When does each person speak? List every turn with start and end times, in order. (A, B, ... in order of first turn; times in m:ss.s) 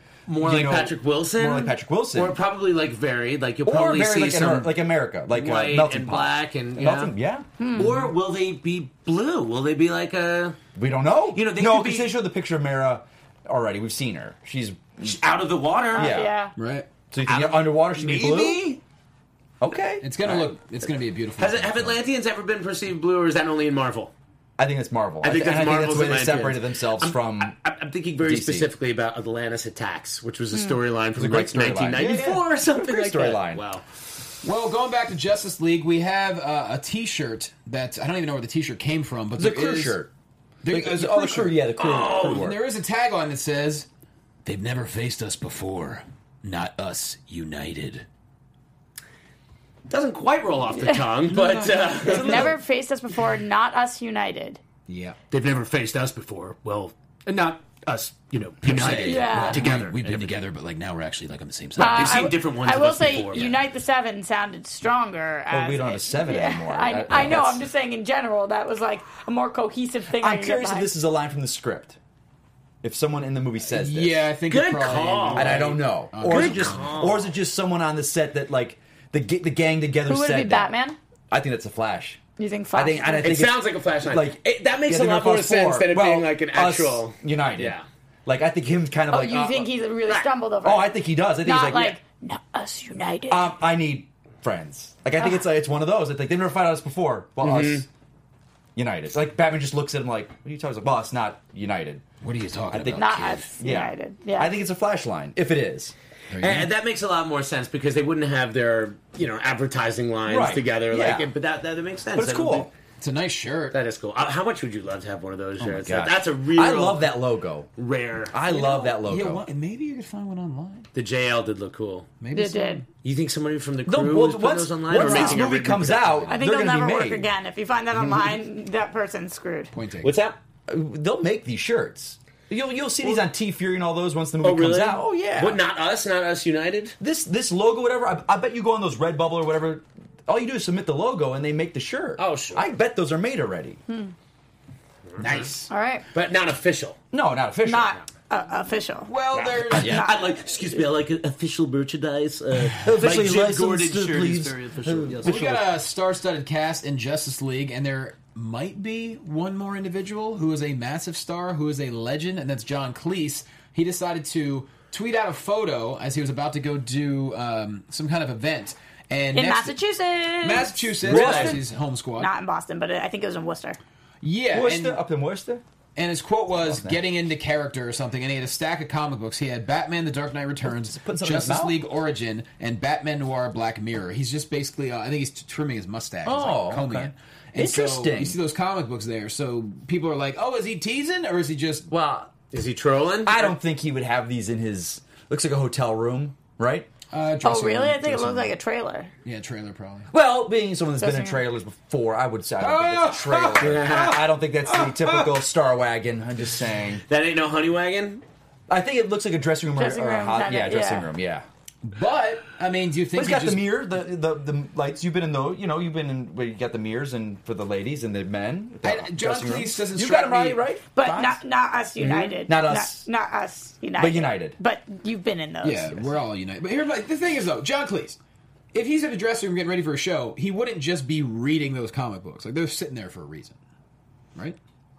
0:00.3-0:04.8 A
0:00.4-0:02.4 B
0:03.6-0:07.5 B
0:05.3-0:07.1 A
0:07.6-0:08.1 C
0:07.7-0:10.6 A
0:10.8-0:15.2 B
0:11.3-0:12.1 A
0:15.0-0:16.2 A
0:15.9-0:16.3 B
0:15.9-0:16.5 C
0:16.6-0:16.9 D
0:17.1-0:18.6 B
0:17.2-0:18.8 A
0:19.6-0:20.5 B
0:20.0-0:22.0 D
0:21.4-0:24.1 A
0:24.6-0:27.5 B
0:25.2-0:33.8 A
0:28.2-0:28.7 B
0:31.1-0:33.6 B
0:32.0-0:32.3 D
0:34.4-0:40.0 D
0:39.4-0:40.1 B
0:40.6-0:43.9 D
0:40.7-0:42.6 B
0:41.8-0:42.4 A
0:44.4-0:48.0 D
0:49.9-0:52.5 A
0:51.3-0:52.5 D
0:52.1-0:54.6 C
0:54.9-0:55.2 D
0:55.3-1:00.4 A
0:58.6-1:02.3 D
0:59.0-0:59.6 C
1:01.8-1:10.9 C
1:01.8-1:03.5 A
1:05.5-1:07.6 B
1:10.1-1:12.0 B
1:12.8-1:14.3 B
1:13.7-1:16.9 D
1:14.5-1:17.3 A
1:15.3-1:20.7 B
1:20.1-1:21.0 C
1:21.3-1:22.2 B
1:22.4-1:23.4 C
1:22.7-1:29.7 B
1:23.2-1:27.8 A
1:29.1-1:33.5 C
1:30.6-1:32.0 B
1:33.3-1:37.9 B
1:37.4-1:37.8 A
1:38.8-1:42.0 B
1:42.2-1:43.5 D
1:42.7-1:45.9 B
1:42.9-1:44.5 C
1:46.3-1:46.7 D
1:46.4-1:52.7 A
1:50.3-1:51.3 B
1:52.1-1:52.7 B
1:53.0-1:53.8 D
1:53.7-1:57.1 A
1:55.6-1:57.7 B
1:57.8-1:58.4 A
1:58.3-1:59.4 B
1:58.5-1:58.9 C
1:59.0-2:00.8 D
2:00.9-2:02.1 A
2:02.2-2:02.8 D
2:02.3-2:02.8 C
2:03.0-2:06.2 A
2:03.8-2:07.2 B
2:05.0-2:05.4 C
2:06.3-2:09.7 C
2:09.7-2:10.1 D
2:10.0-2:10.4 A
2:10.7-2:15.6 B
2:14.4-2:16.9 A
2:17.0-2:23.8 B
2:22.2-2:22.6 A
2:23.9-2:24.1 C
2:25.1-2:25.5 A
2:25.2-2:25.7 D
2:25.7-2:26.0 C
2:26.1-2:27.0 A
2:27.1-2:28.0 B
2:27.6-2:29.1 C
2:29.0-2:30.0 D
2:29.3-2:35.6 A
2:29.7-2:30.0 B
2:29.7-2:30.3 C
2:32.8-2:35.6 B
2:35.2-2:49.8 D
2:49.3-2:51.6 C
2:50.4-2:52.3 D
2:51.0-2:51.6 B
2:51.1-2:51.5 A
2:52.2-2:53.8 C
2:54.2-2:55.0 D
2:54.5-2:55.6 B
2:56.0-3:11.9 D
2:56.5-2:57.0 B
3:00.6-3:01.8 B
3:06.2-3:08.4 B
3:11.9-3:13.5 A
3:13.2-3:16.9 B
3:17.1-3:18.5 D
3:17.4-3:19.1 C
3:19.2-3:20.1 D
3:20.1-3:27.0 B
3:21.0-3:21.4 C
3:22.6-3:25.4 D
3:23.6-3:24.2 A
3:27.1-3:28.2 A
3:28.7-3:31.4 B
3:29.8-3:31.1 C
3:31.8-3:33.6 D
3:33.1-3:41.4 B
3:38.8-3:40.6 D
3:40.9-3:46.2 C
3:42.0-3:43.1 B
3:44.0-3:44.6 B
3:45.6-3:48.2 D
3:48.7-3:53.6 D